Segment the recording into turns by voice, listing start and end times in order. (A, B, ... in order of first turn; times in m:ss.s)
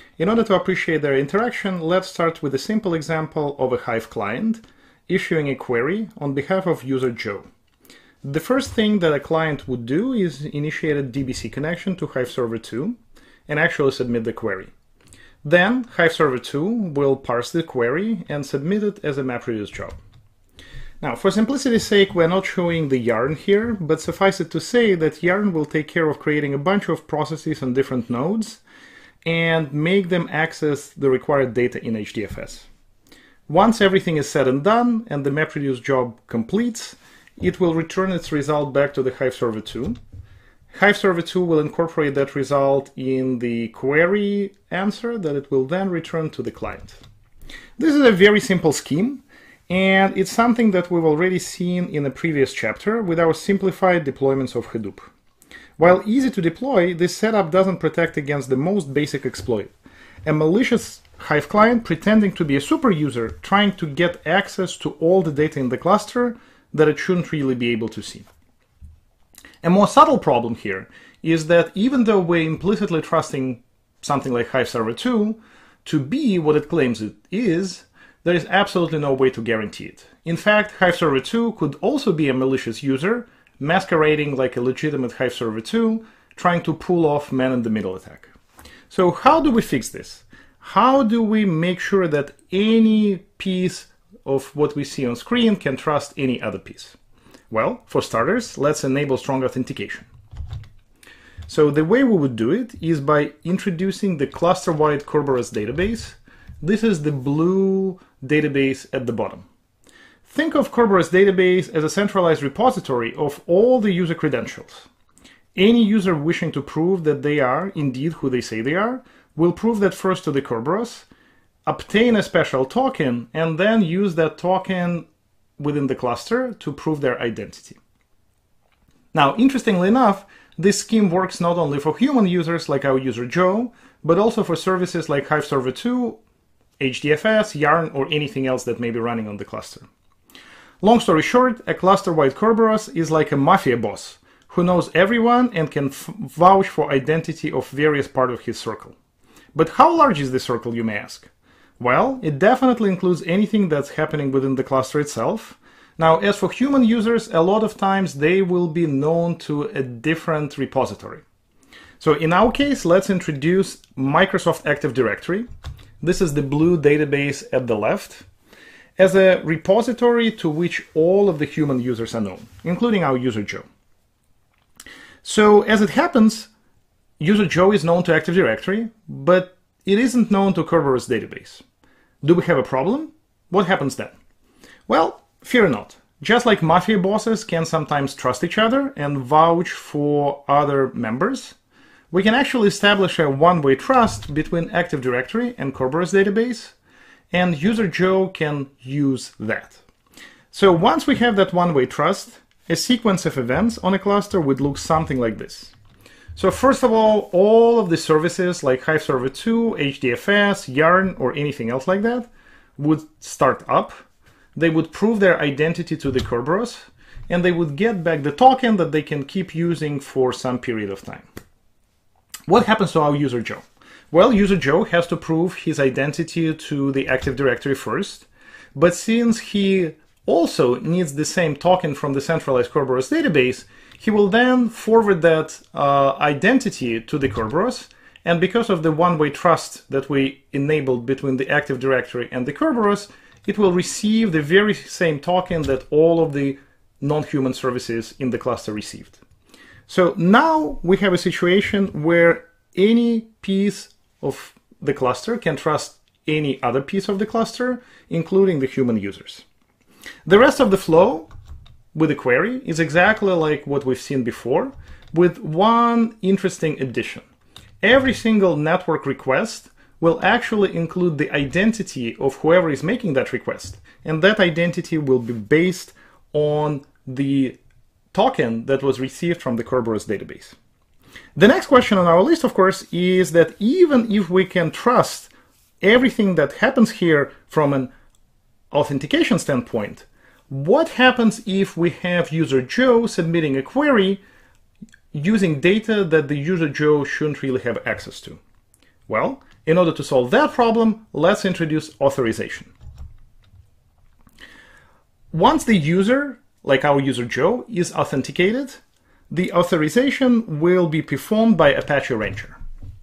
0:00.2-0:07.4 A
0:08.2-0:13.0 A
0:13.5-0:14.7 A
0:15.4-0:20.0 A
0:21.0-0:28.6 A
0:29.2-0:32.7 A
0:33.5-0:40.0 A
0:40.7-0:47.0 A
0:47.8-0:55.1 A
0:55.8-0:59.7 A
1:00.2-1:08.2 A
1:09.6-1:28.3 A
1:28.9-1:37.0 A
1:37.5-1:40.1 A
1:41.5-1:49.4 A
1:50.2-1:54.9 A
1:55.5-2:01.0 A
2:01.6-2:05.0 A
2:05.6-2:07.8 A
2:09.1-2:16.2 A
2:16.8-2:19.8 A
2:20.8-2:28.9 A
2:29.5-2:41.2 A
2:42.0-2:45.5 A
2:46.0-2:48.2 A
2:49.0-2:53.6 A
2:55.2-2:56.5 A
2:57.2-3:01.6 A
3:02.2-3:04.2 A
3:04.9-3:11.5 A
3:12.1-3:16.7 A
3:17.3-3:19.8 A
3:20.5-3:25.7 A
3:26.4-3:34.0 A
3:34.6-3:41.2 A
3:42.5-4:09.2 A
4:09.9-4:19.4 A
4:20.2-4:21.3 A
4:21.9-4:27.2 A
4:27.8-4:37.6 A
4:38.1-4:40.5 A
4:41.4-4:45.3 A
4:45.8-4:47.9 A
4:48.7-4:54.2 A
4:55.1-4:58.4 A
4:59.1-5:02.7 A
5:05.3-5:12.6 A